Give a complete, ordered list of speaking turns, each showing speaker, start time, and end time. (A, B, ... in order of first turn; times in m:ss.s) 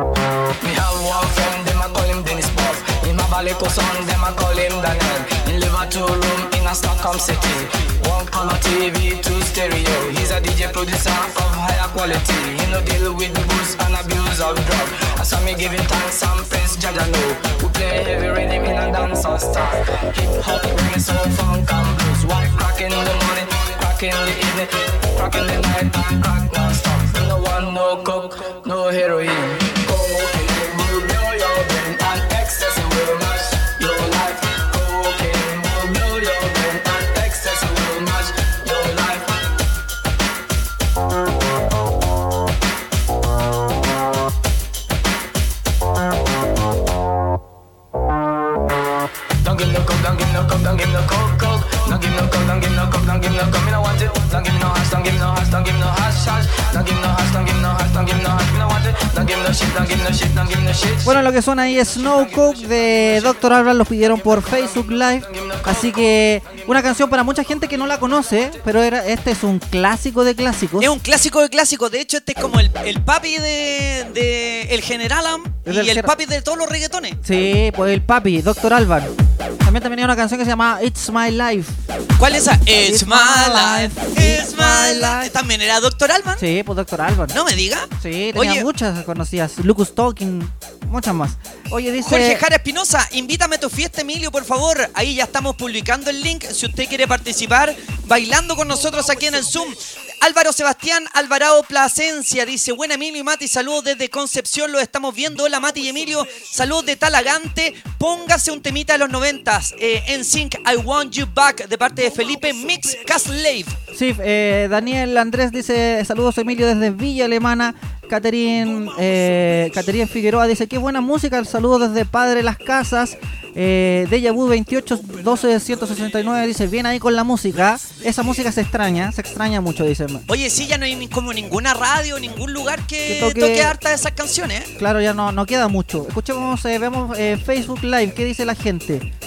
0:00.6-0:39.3 A
0:49.4-1:01.2 A
1:01.0-1:10.9 B
1:05.2-1:06.0 A
1:10.8-1:17.2 C
1:15.6-1:16.1 B
1:17.2-1:19.1 B
1:19.6-1:21.8 B
1:22.2-1:26.4 C
1:22.8-1:25.3 B
1:26.4-1:27.3 B
1:27.3-1:28.6 C
1:28.0-1:32.4 B
1:32.0-1:53.7 C
1:53.9-2:10.2 B
2:10.3-2:14.7 C
2:13.1-2:13.8 B
2:14.8-2:19.1 B